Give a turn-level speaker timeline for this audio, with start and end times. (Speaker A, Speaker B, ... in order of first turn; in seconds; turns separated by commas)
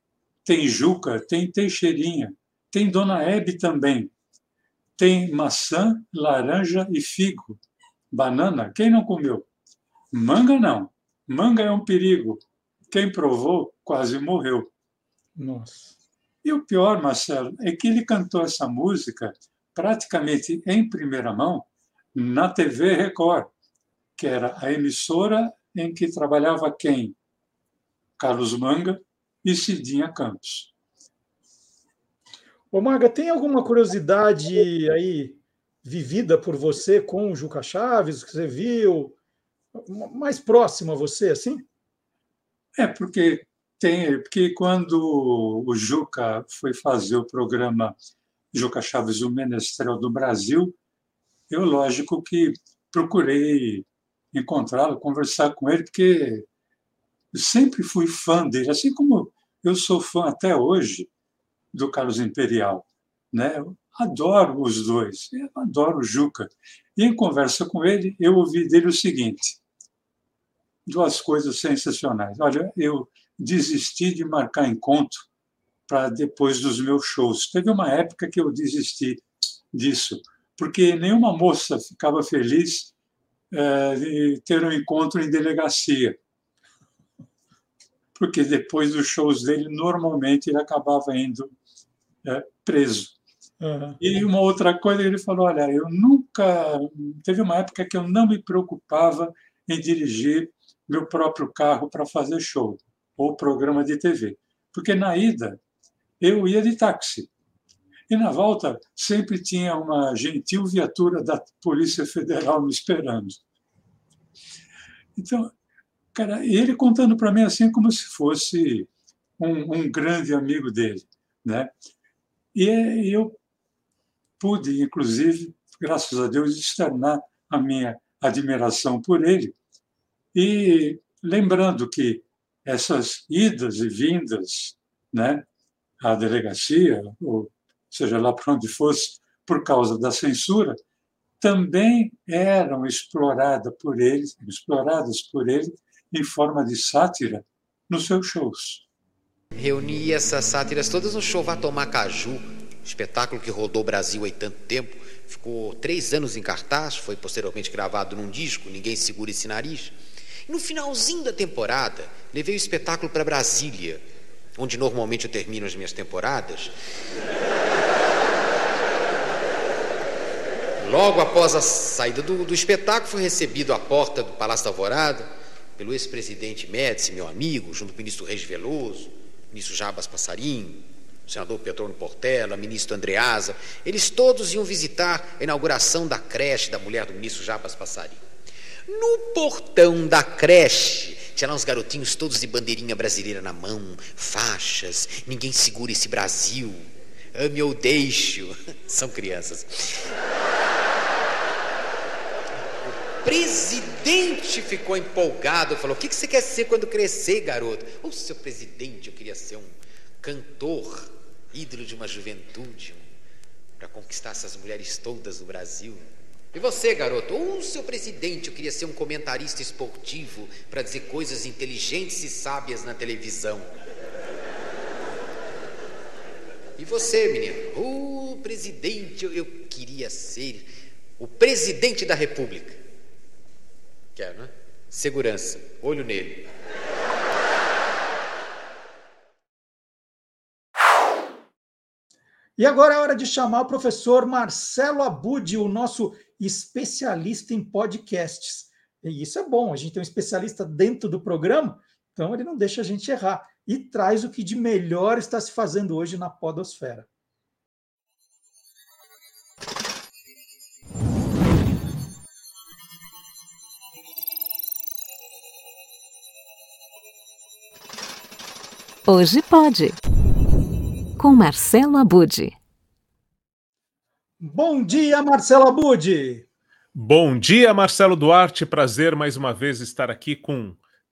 Speaker A: 0.4-4.1, Speaker A: 5.0-7.6, Speaker A: 8.1-9.4, Speaker A: 10.1-14.7, Speaker B: 15.4-16.0, Speaker A: 16.4-23.5, Speaker A: 24.2-27.1, Speaker A: 28.2-30.7, Speaker B: 32.7-39.1, Speaker B: 39.7-41.6, Speaker A: 42.7-48.0, Speaker A: 48.5-50.7, Speaker A: 51.5-56.5, Speaker A: 57.3-61.1, Speaker A: 61.7-69.6, Speaker A: 70.9-75.3, Speaker A: 75.9-82.9, Speaker A: 83.5-86.2, Speaker A: 88.2-91.5, Speaker A: 92.2-93.1, Speaker B: 93.6-94.0, Speaker A: 94.0-105.6, Speaker A: 106.2-107.3, Speaker A: 108.1-113.4, Speaker A: 115.2-115.5, Speaker A: 116.1-121.7, Speaker A: 122.5-123.4, Speaker A: 124.4-129.5, Speaker A: 130.3-135.4, Speaker A: 136.0-140.8, Speaker A: 141.4-148.8, Speaker C: 149.5-159.9, Speaker C: 160.5-164.0, Speaker C: 164.6-166.7, Speaker C: 170.8-188.2, Speaker C: 188.9-200.0, Speaker C: 203.2-213.1, Speaker C: 213.8-223.7, Speaker C: 226.8-232.8, Speaker C: 234.2-236.4, Speaker B: 242.6-257.1, Speaker D: 269.1-270.0, Speaker D: 271.2-272.6, Speaker B: 274.4-276.4, Speaker E: 276.9-280.8